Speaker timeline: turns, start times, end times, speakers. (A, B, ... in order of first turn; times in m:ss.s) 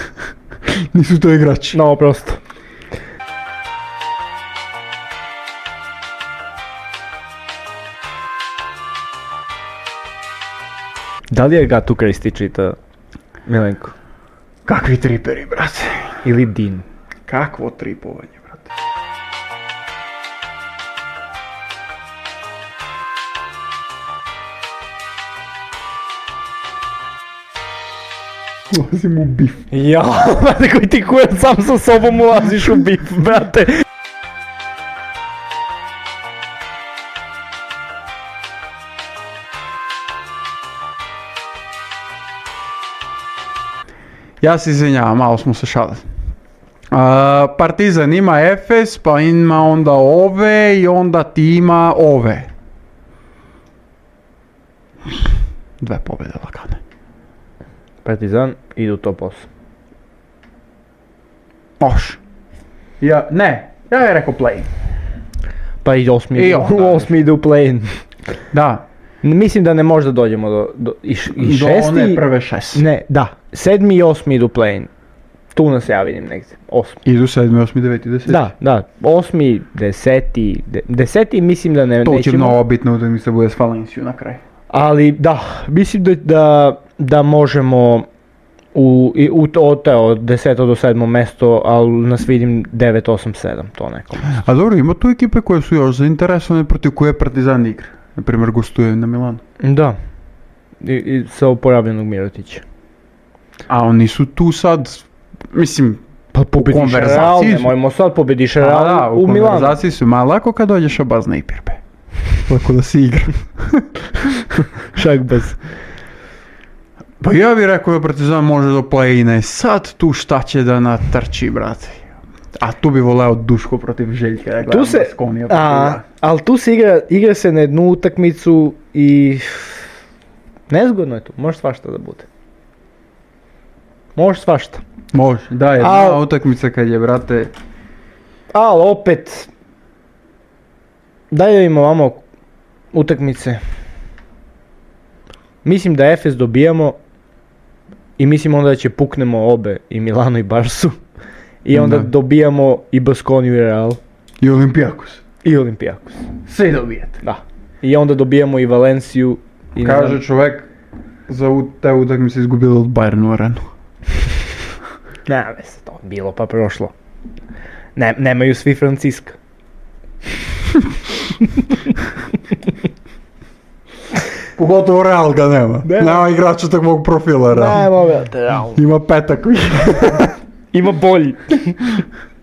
0:00.7-0:01.8 A
0:01.7-0:02.4 B
0:11.3-0:12.8 B
0:13.4-0:13.9 B
0:14.7-0:16.2 A
0:16.2-0:16.8 B
0:17.3-0:18.7 A
0:28.7-0:29.7 A
0:29.7-0:33.8 B
0:44.4-0:46.0 A
0:46.9-0:52.5 A
0:55.8-0:56.8 A
0:58.0-0:59.5 B
1:01.8-1:02.2 A
1:03.0-1:04.7 A
1:05.8-1:08.0 B
1:06.4-1:07.1 A
1:08.5-1:08.8 A
1:09.2-1:14.9 B
1:11.4-1:12.8 A
1:15.5-1:17.0 B
1:17.0-1:18.5 A
1:18.3-1:22.6 B
1:22.0-1:24.4 A
1:24.7-1:28.1 B
1:28.7-1:34.3 B
1:34.3-1:39.4 A
1:39.6-1:40.0 B
1:40.8-1:42.6 B
1:43.7-1:46.0 A
1:46.3-1:49.8 B
1:46.6-1:47.7 A
1:48.6-1:51.8 A
1:52.4-1:54.5 A
1:54.9-1:55.6 B
1:57.2-2:06.0 A
2:04.7-2:09.9 B
2:10.7-2:12.3 B
2:14.2-2:14.8 B
2:15.1-2:17.5 A
2:15.8-2:16.2 B
2:18.5-2:19.5 B
2:21.3-2:22.2 B
2:22.9-2:23.6 B
2:25.6-2:27.0 B
2:28.2-2:31.0 B
2:31.6-2:34.0 B
2:31.7-2:32.1 A
2:34.4-2:35.2 A
2:35.4-2:36.3 B
2:36.4-2:37.2 A
2:37.2-2:40.2 B
2:39.8-2:40.7 A
2:41.3-2:43.6 A
2:45.3-2:46.9 B
2:48.0-2:49.4 B
2:54.6-2:57.9 A
2:55.8-2:56.2 B
2:57.5-2:58.8 B
2:58.7-3:00.4 A
3:00.7-3:01.9 B